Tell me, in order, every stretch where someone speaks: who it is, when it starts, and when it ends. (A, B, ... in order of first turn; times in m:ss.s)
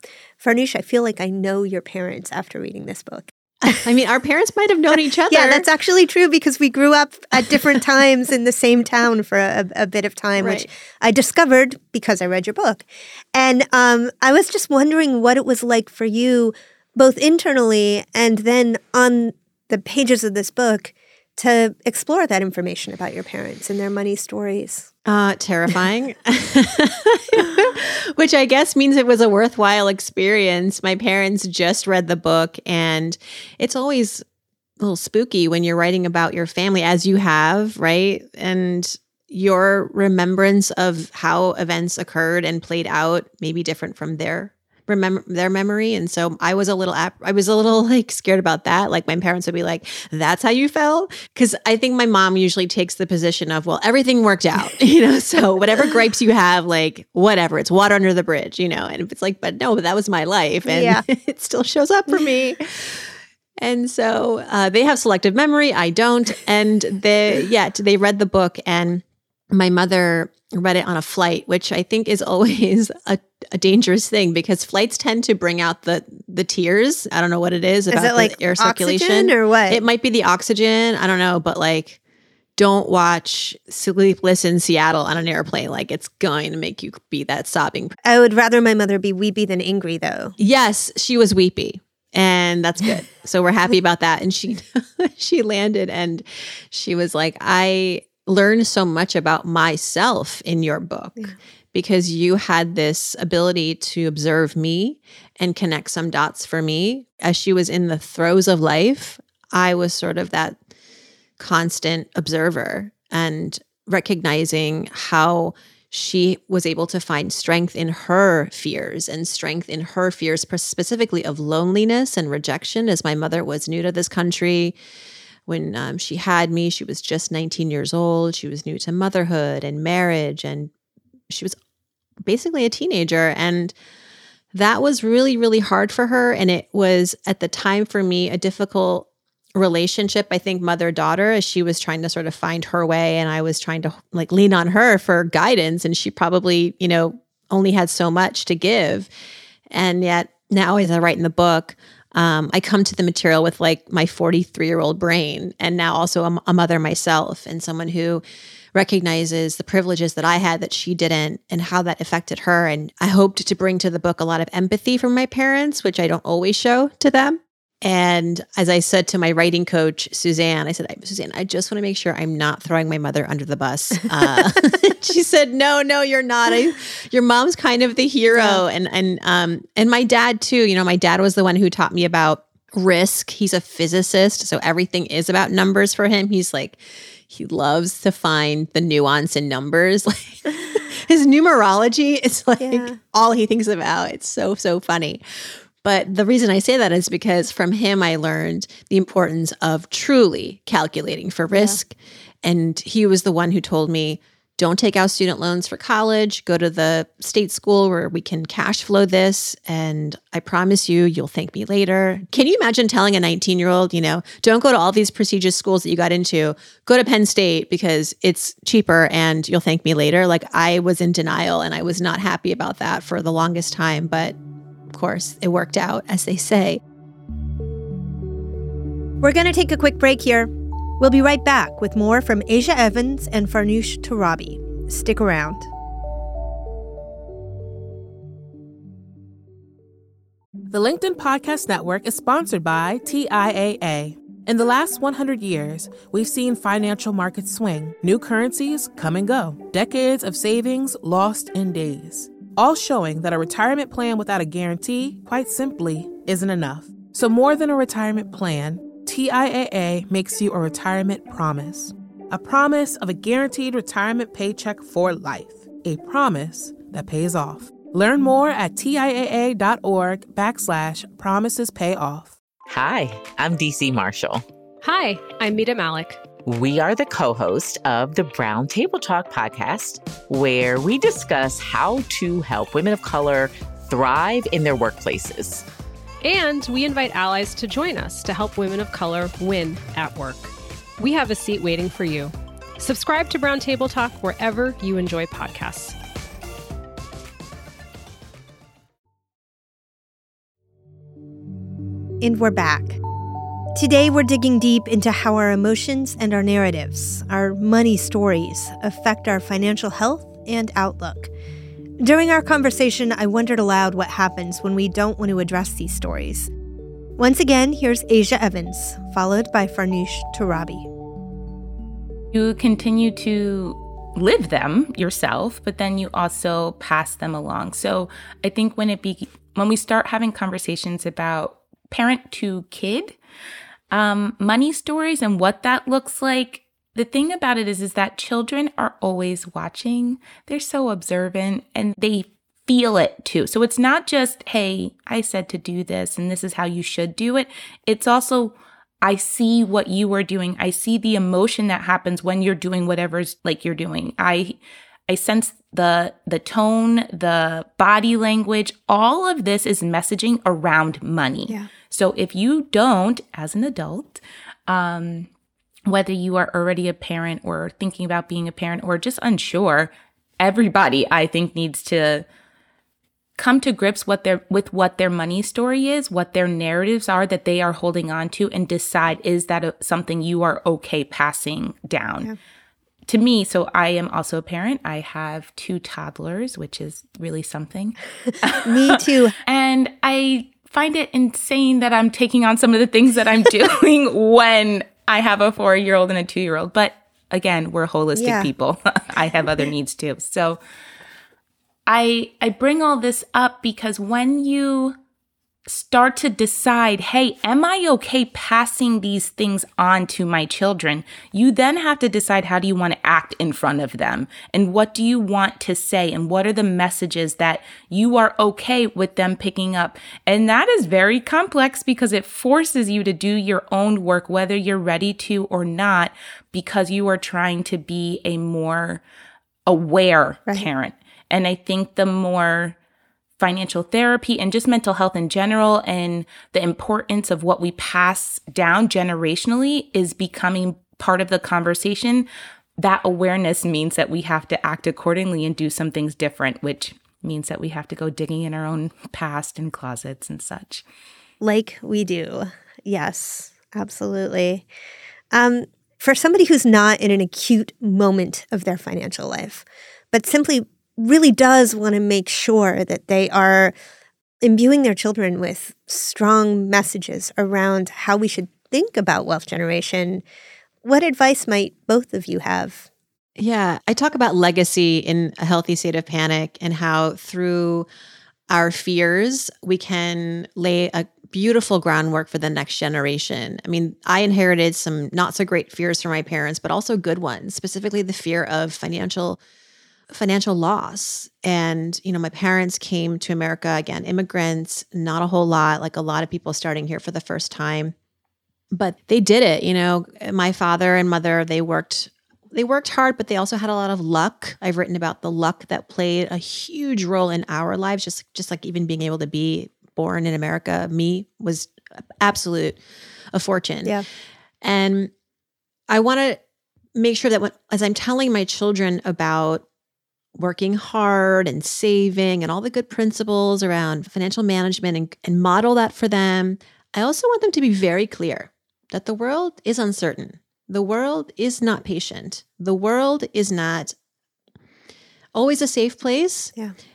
0:00.4-0:03.8 A
0:03.6-0:05.7 B
0:05.3-0:24.9 A
0:10.4-0:10.7 B
0:25.0-0:34.2 B
0:27.4-0:27.7 A
0:34.8-1:22.0 B
1:00.6-1:01.0 A
1:17.9-1:19.8 A
1:22.6-1:28.0 B
1:28.0-1:30.3 A
1:30.4-1:50.6 B
1:51.4-2:04.8 B
2:05.4-2:10.7 B
2:11.3-2:11.6 B
2:12.2-2:13.7 B
2:14.5-2:29.1 B
2:29.7-2:38.2 B
2:38.7-3:44.4 B
2:58.3-2:58.6 A
3:12.6-3:13.0 A
3:21.5-3:21.8 A
3:44.9-3:46.8 B
3:49.2-3:55.7 A
4:00.7-4:32.4 C
4:32.7-4:34.4 D
4:34.8-4:36.3 E
4:36.4-4:45.6 D
4:46.2-4:56.0 E
5:02.2-5:03.0 A
5:03.7-5:11.3 A
5:12.0-5:16.5 A
5:17.2-5:20.9 A
5:22.3-5:33.2 F
5:33.9-5:54.6 F
5:55.1-6:05.3 F
6:05.8-6:12.2 F
6:13.4-6:22.3 F
6:23.1-6:40.6 F
6:28.6-6:29.4 A
6:38.2-6:38.5 A
6:41.9-6:45.0 F
6:45.6-7:09.0 F
7:09.7-7:12.8 F
7:13.4-7:22.3 F
7:22.8-7:30.8 F
7:31.4-7:34.6 A
7:35.3-7:43.7 A
7:44.4-7:50.2 A
7:50.8-7:52.9 A
7:53.4-7:57.9 B
7:58.5-8:09.4 B
8:10.1-8:17.9 B
8:18.7-8:32.8 B
8:33.3-8:34.0 B
8:34.6-8:35.1 B
8:35.9-8:36.4 B
8:36.9-8:39.6 B
8:40.4-8:53.9 B
8:55.3-8:56.5 B